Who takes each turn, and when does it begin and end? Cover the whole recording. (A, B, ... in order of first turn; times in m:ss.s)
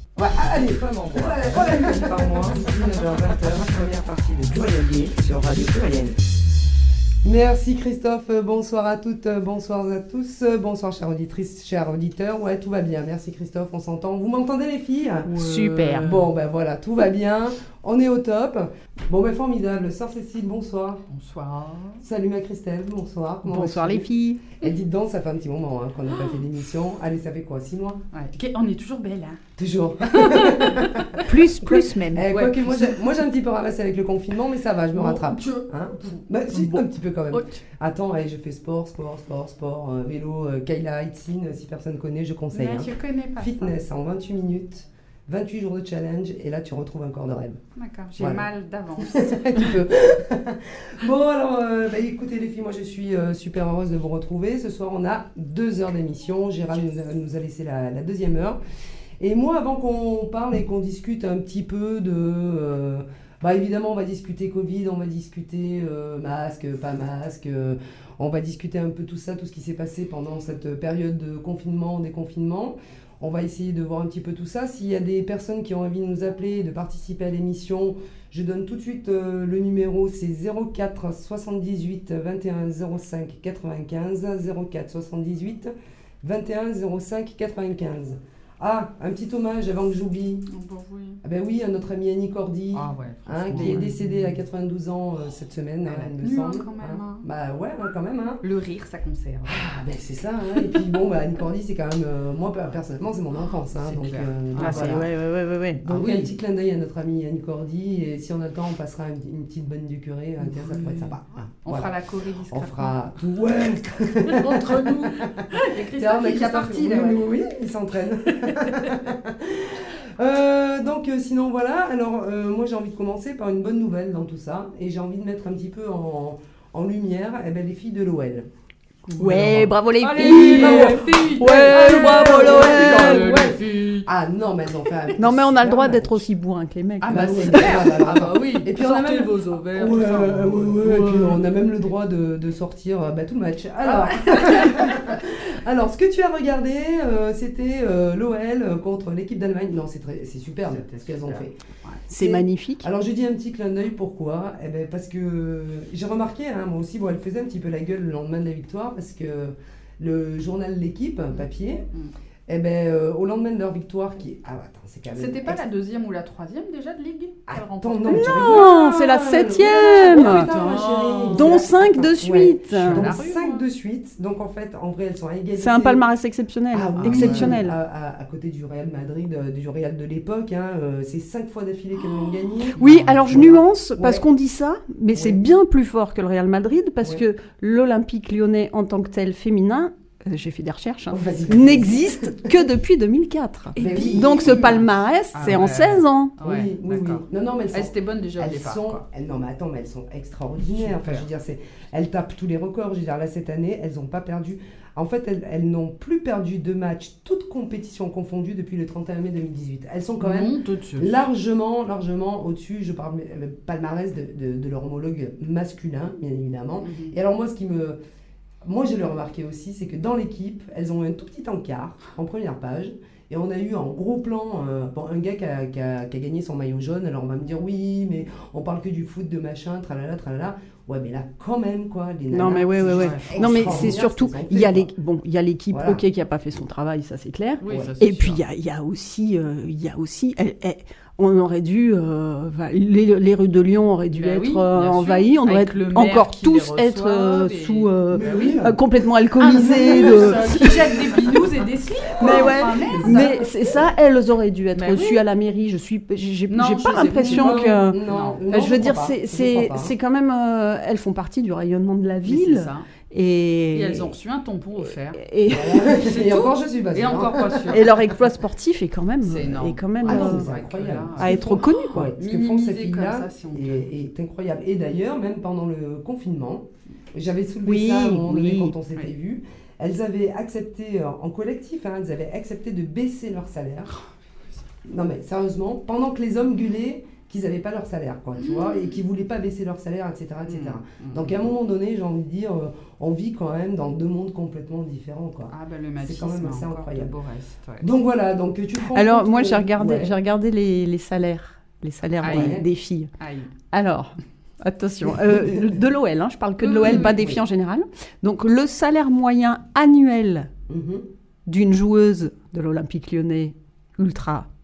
0:00.2-0:06.2 A
0:07.2-0:21.0 A
0:15.3-0:16.1 B
0:15.4-0:16.2 C
0:21.1-0:22.0 C
0:22.0-0:28.0 A
0:23.4-0:24.4 B
0:26.1-0:26.4 C
0:28.1-0:29.4 C
0:29.6-0:31.2 A
0:30.1-0:33.0 C
0:31.2-0:32.0 B
0:32.0-0:47.6 A
0:34.9-0:37.6 C
0:42.5-0:43.7 C
0:47.8-0:49.5 C
0:48.2-0:58.6 A
0:59.2-1:30.5 A
1:30.5-1:31.2 C
1:31.2-1:38.4 A
1:32.7-1:34.2 C
1:35.9-1:37.2 C
1:38.4-1:39.7 C
1:39.5-1:45.1 A
1:40.5-1:40.8 C
1:43.8-1:45.0 C
1:44.6-1:45.8 B
1:45.8-1:51.9 A
1:45.9-1:46.3 C
1:50.4-1:53.1 C
1:52.5-2:08.5 A
1:54.2-1:57.2 C
1:58.3-1:58.9 C
2:09.1-2:13.4 B
2:09.2-2:14.1 C
2:09.2-2:09.6 A
2:10.2-2:16.3 A
2:15.2-2:17.9 B
2:17.0-2:21.4 C
2:17.1-2:31.6 A
2:23.8-2:25.2 C
2:30.7-2:32.0 C
2:32.1-2:32.9 B
2:32.1-2:41.8 A
2:42.5-2:45.6 A
2:45.2-2:48.7 C
2:47.5-2:56.0 A
2:48.1-2:50.5 B
2:50.0-2:51.7 C
2:51.3-2:53.1 B
2:52.7-2:53.6 C
2:55.6-2:57.8 B
2:56.7-3:04.2 A
2:57.0-2:57.5 C
3:02.0-3:03.3 C
3:02.8-3:16.3 B
3:05.1-3:05.4 A
3:11.1-3:12.6 A
3:13.7-3:14.8 C
3:13.8-3:14.6 A
3:15.3-3:19.0 C
3:16.4-3:38.0 A
3:20.8-3:21.2 C
3:30.2-3:31.1 C
3:36.8-3:37.1 C
3:38.6-3:54.9 A
3:52.3-4:11.1 B
3:52.9-3:53.9 C
3:55.7-3:56.0 A
3:57.6-3:58.4 C
3:57.6-3:57.9 A
4:04.1-4:08.5 C
4:08.1-4:08.8 A
4:09.4-4:13.4 C
4:09.5-4:10.8 A
4:12.2-4:13.5 A
4:12.2-4:24.1 B
4:14.7-4:15.2 C
4:16.5-4:18.4 C
4:17.2-4:19.9 A
4:22.2-4:22.8 C
4:23.7-4:25.2 C
4:25.2-4:26.0 B
4:25.5-4:27.8 A
4:26.0-4:27.9 C
4:27.7-4:30.5 B
4:29.2-4:33.9 C
4:30.0-4:44.0 A
4:31.2-4:32.1 B
4:37.6-4:38.7 B
4:44.9-4:57.2 A
4:48.4-4:49.0 C
4:50.4-4:51.4 C
4:55.5-4:57.9 C
4:57.8-5:00.1 A
4:58.9-5:03.1 B
5:02.2-5:02.6 C
5:02.2-5:02.6 A
5:03.2-5:03.5 C
5:03.7-5:10.5 B
5:05.3-5:05.6 A
5:06.6-5:07.2 C
5:06.8-5:07.4 A
5:10.7-5:11.1 A
5:11.5-5:14.5 B